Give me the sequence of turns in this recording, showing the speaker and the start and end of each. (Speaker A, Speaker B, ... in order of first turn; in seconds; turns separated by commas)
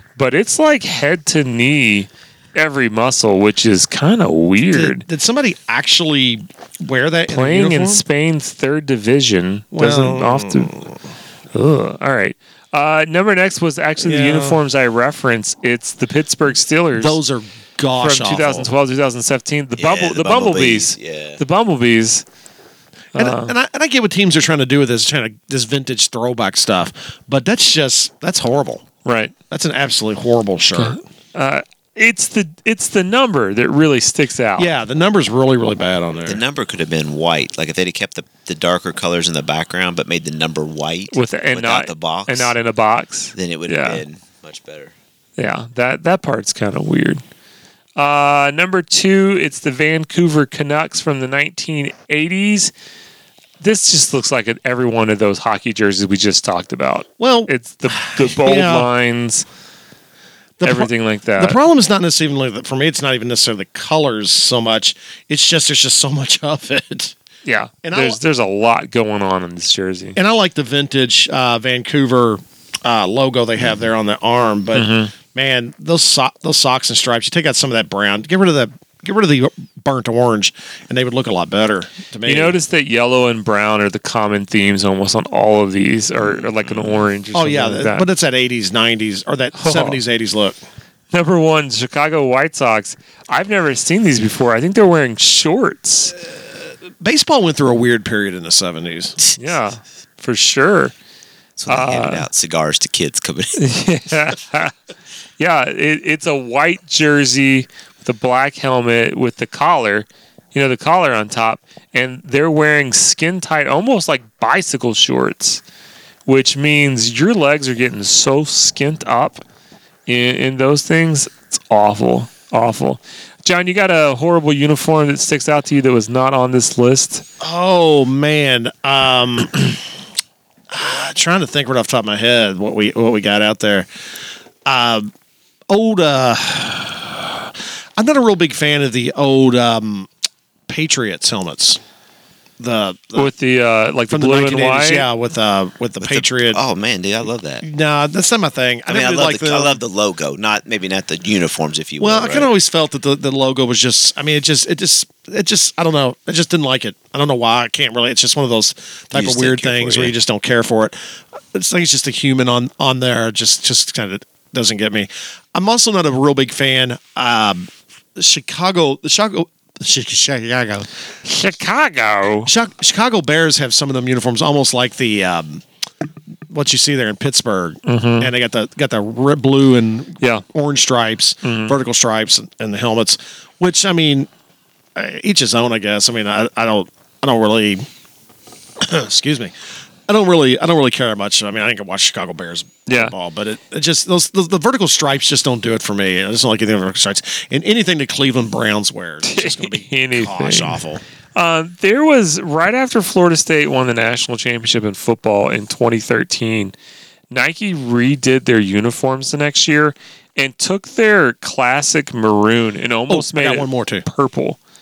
Speaker A: 0.2-5.0, Speaker B: 4.7-8.0, Speaker A: 7.3-10.7, Speaker B: 9.7-11.0, Speaker A: 11.5-17.2, Speaker B: 14.0-14.6, Speaker B: 17.0-18.7, Speaker A: 18.0-22.2, Speaker C: 19.8-21.4, Speaker A: 23.1-23.5, Speaker B: 23.1-28.9, Speaker A: 29.1-29.3, Speaker B: 29.5-31.0, Speaker A: 30.8-34.7, Speaker B: 34.6-36.4, Speaker C: 36.3-42.5, Speaker A: 41.1-44.0, Speaker C: 43.3-44.9, Speaker A: 45.4-47.2, Speaker A: 48.0-52.7, Speaker A: 53.6-59.5, Speaker B: 57.2-58.9, Speaker B: 60.6-67.2, Speaker A: 60.6-61.6, Speaker A: 67.5-70.2, Speaker B: 67.8-68.2, Speaker B: 70.2-82.6, Speaker A: 74.7-75.1, Speaker A: 82.2-88.1, Speaker C: 86.2-87.1, Speaker B: 87.3-90.6, Speaker A: 89.5-90.0, Speaker A: 91.1-96.2, Speaker B: 97.0-99.2, Speaker A: 99.4-100.9, Speaker C: 101.6-103.8, Speaker A: 101.7-102.3, Speaker A: 103.6-104.7, Speaker A: 105.4-115.6, Speaker A: 116.3-119.4, Speaker A: 120.1-127.2, Speaker B: 127.4-129.8, Speaker B: 130.7-133.9, Speaker B: 134.7-135.1, Speaker B: 135.7-140.1, Speaker B: 140.7-141.8, Speaker B: 142.6-143.3, Speaker A: 143.2-145.1, Speaker B: 144.1-146.6, Speaker C: 146.0-147.6, Speaker B: 147.6-149.8, Speaker C: 148.9-152.5, Speaker B: 152.0-161.0, Speaker C: 159.1-160.1, Speaker B: 161.5-170.9, Speaker A: 171.2-172.5, Speaker B: 172.4-175.6, Speaker B: 176.5-184.3, Speaker A: 177.9-178.3, Speaker A: 181.4-181.8, Speaker B: 184.9-187.9, Speaker B: 188.8-189.6, Speaker B: 190.1-201.0, Speaker A: 192.9-193.1, Speaker A: 199.2-200.8, Speaker A: 201.3-206.8, Speaker A: 207.3-214.6, Speaker B: 213.1-214.1